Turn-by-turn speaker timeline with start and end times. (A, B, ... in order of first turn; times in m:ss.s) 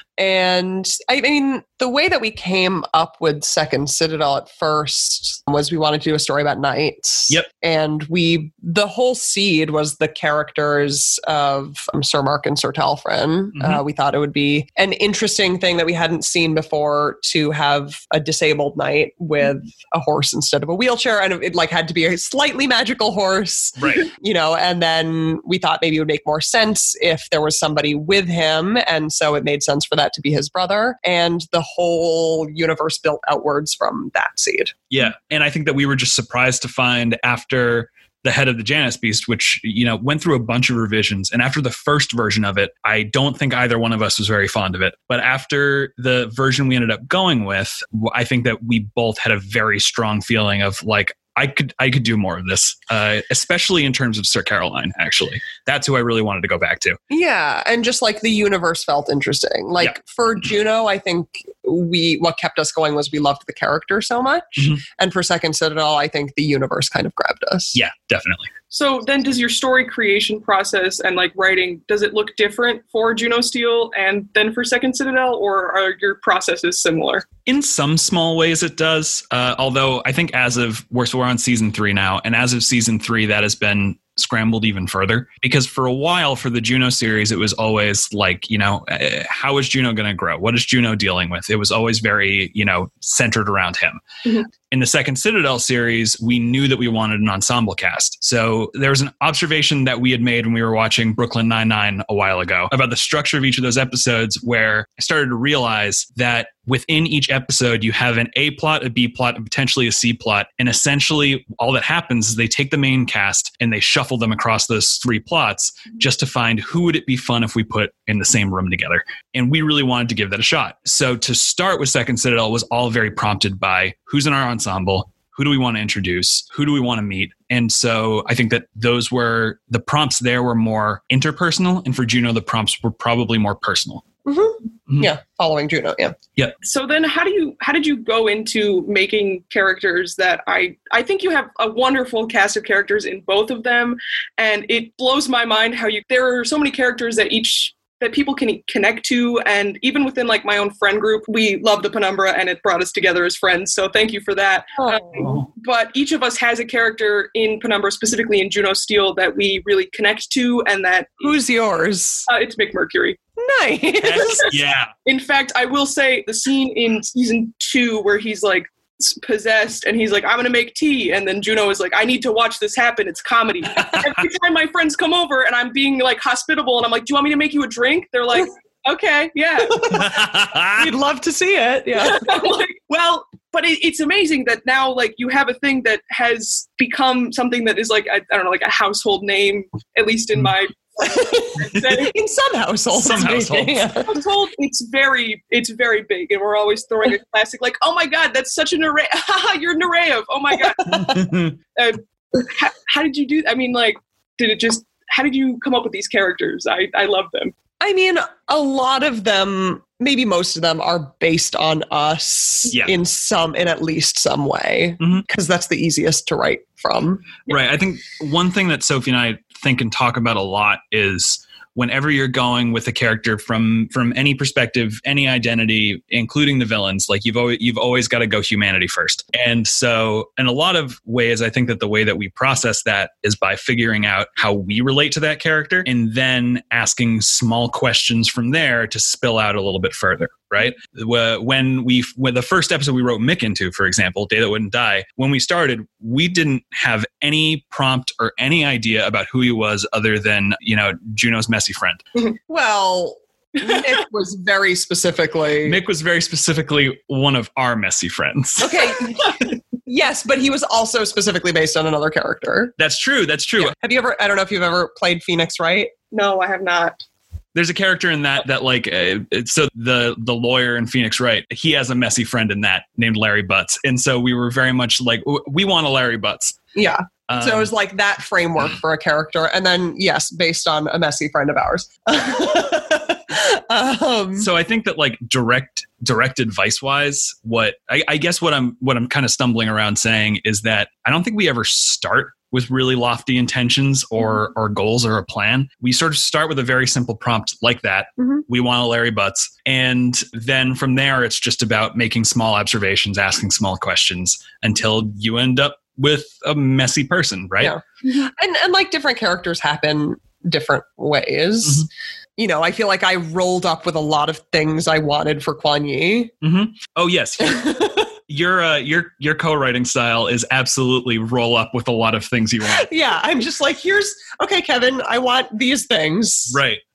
0:00.2-0:34.7 A
0:13.6-0:13.8 B
0:23.8-0:24.1 B
0:34.9-0:57.0 B
0:57.1-1:07.8 A
1:07.7-1:08.5 B
1:08.7-1:17.2 C
1:17.4-1:34.0 B
1:34.7-2:14.0 B
2:14.2-2:16.2 A
2:16.6-2:41.3 C
2:34.8-2:35.2 A
2:35.2-2:35.4 B
2:41.2-2:42.3 A
2:42.3-2:43.2 C
2:43.4-2:44.4 A
2:44.0-2:44.9 B
2:44.3-2:59.9 C
2:53.7-2:54.1 B
2:59.8-3:00.1 A
2:59.9-3:00.9 B
3:00.8-3:02.4 A
3:02.0-3:12.1 C
3:11.0-3:14.2 A
3:12.9-3:13.9 B
3:14.1-3:20.8 C
3:20.8-3:21.2 A
3:20.9-3:21.5 B
3:21.8-3:27.6 C
3:27.8-3:37.5 A
3:35.0-3:35.2 B
3:37.5-4:12.0 B
4:12.5-4:15.8 A
4:15.6-4:19.5 B
4:18.6-4:22.7 A
4:22.8-4:23.7 B
4:23.6-4:25.9 A
4:26.1-4:27.0 C
4:27.5-4:36.6 B
4:36.7-4:44.5 A
4:37.3-4:37.7 B
4:44.4-5:07.7 B
4:58.2-4:58.4 A
5:07.6-5:16.3 A
5:16.4-5:22.9 B
5:17.4-5:18.1 A
5:22.6-5:26.6 A
5:26.5-5:26.8 B